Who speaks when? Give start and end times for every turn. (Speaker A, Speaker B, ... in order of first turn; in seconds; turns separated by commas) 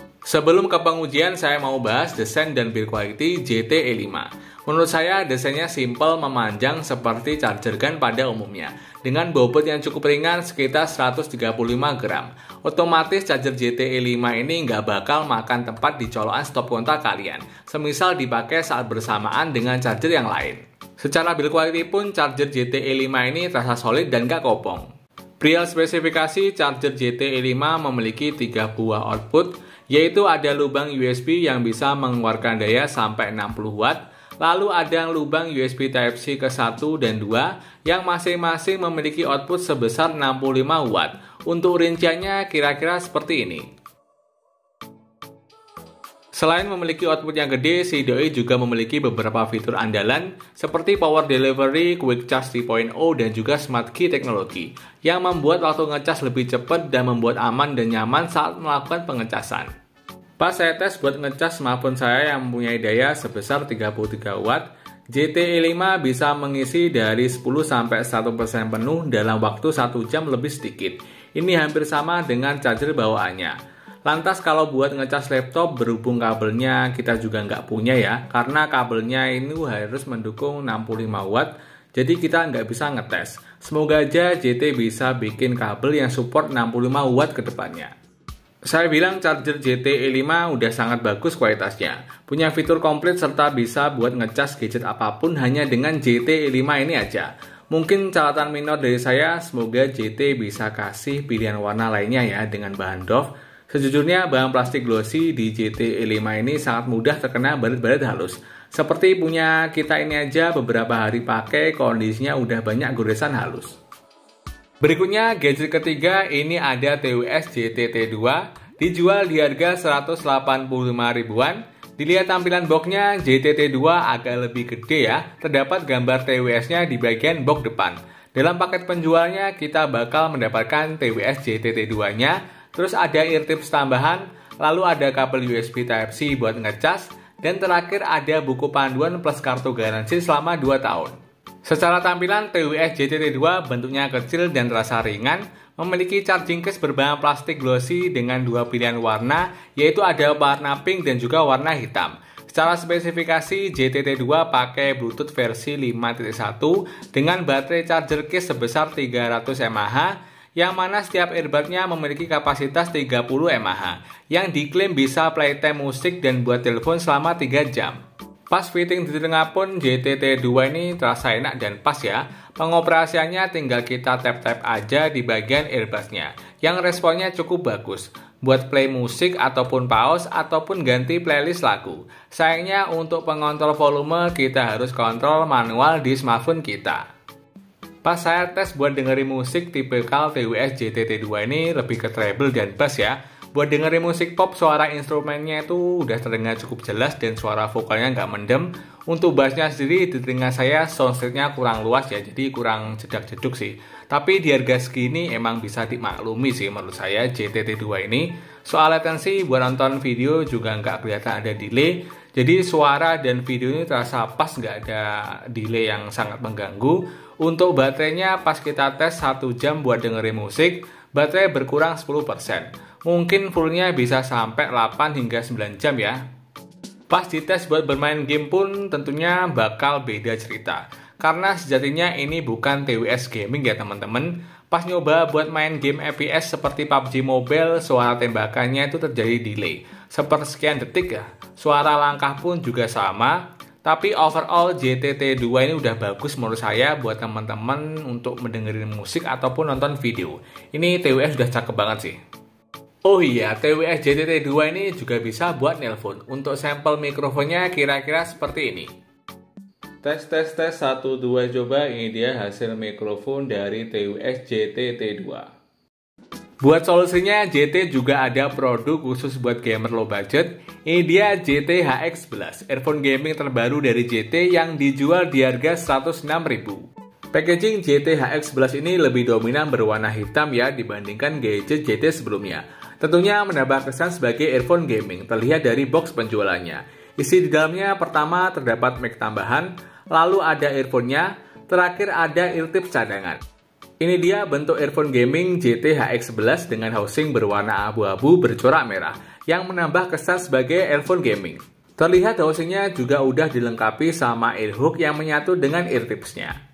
Speaker A: 0.3-24.9, Speaker A: 25.4-43.7, Speaker A: 46.4-59.7, Speaker A: 60.4-87.9, Speaker A: 88.7-113.8, Speaker A: 114.8-168.0, Speaker A: 168.5-187.0, Speaker A: 188.0-226.2, Speaker A: 227.1-252.2, Speaker A: 253.1-258.9, Speaker A: 260.0-265.5, Speaker A: 266.6-276.8, Speaker A: 277.3-293.4, Speaker A: 294.0-306.6